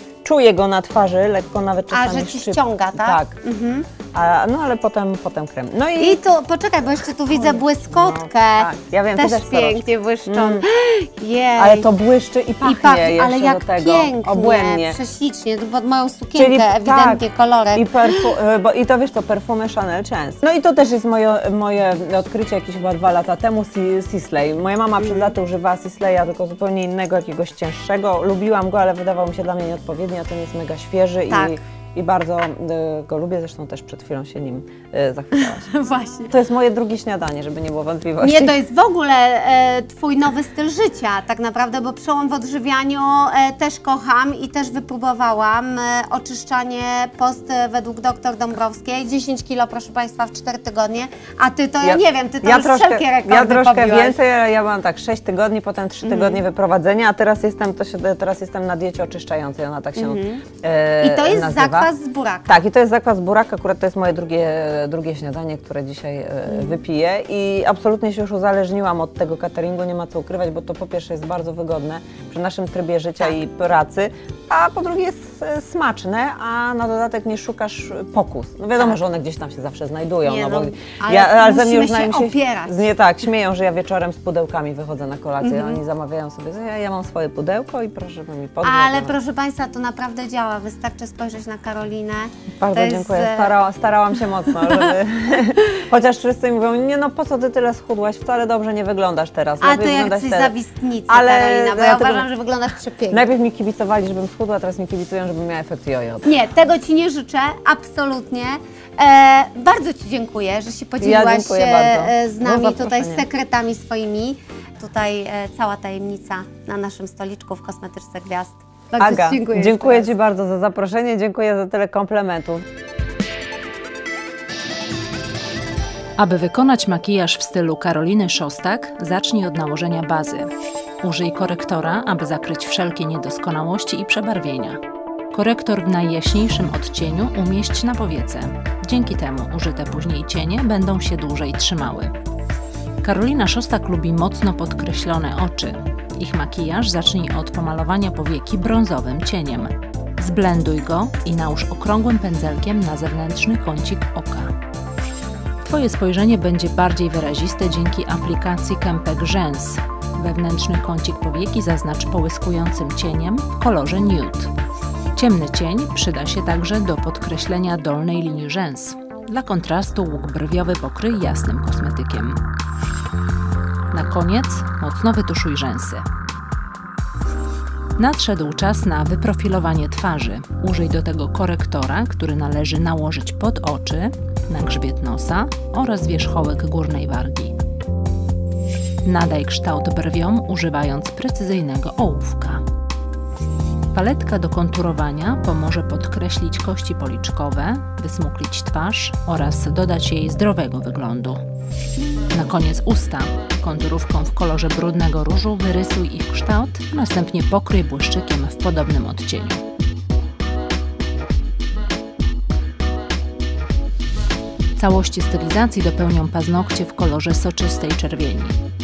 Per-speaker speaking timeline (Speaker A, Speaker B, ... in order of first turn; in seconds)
Speaker A: 0.2-3.4, 4.1-6.2, 7.3-10.7, 11.6-15.0, 16.4-35.7, 36.3-38.5, 51.8-61.9, 62.5-89.2, 92.6-100.5, 101.1-102.3, 103.1-106.3, 111.0-113.2, 119.0-122.6
Speaker B: 1.9-3.9, 6.0-11.9, 12.6-18.3, 25.0-25.3, 31.3-31.6, 35.4-36.3, 38.2-54.2, 56.0-56.4, 60.0-60.4, 61.0-62.6, 66.5-66.8, 80.2-82.9, 85.4-85.8, 88.6-93.5, 99.6-103.2, 106.2-120.1
Speaker C: 126.2-130.5, 131.0-134.8, 135.3-142.1, 143.0-154.5, 155.6-164.5, 165.2-172.4, 173.9-176.0, 178.0-187.6, 189.0-192.6, 193.9-201.4, 202.3-209.6, 214.8-218.6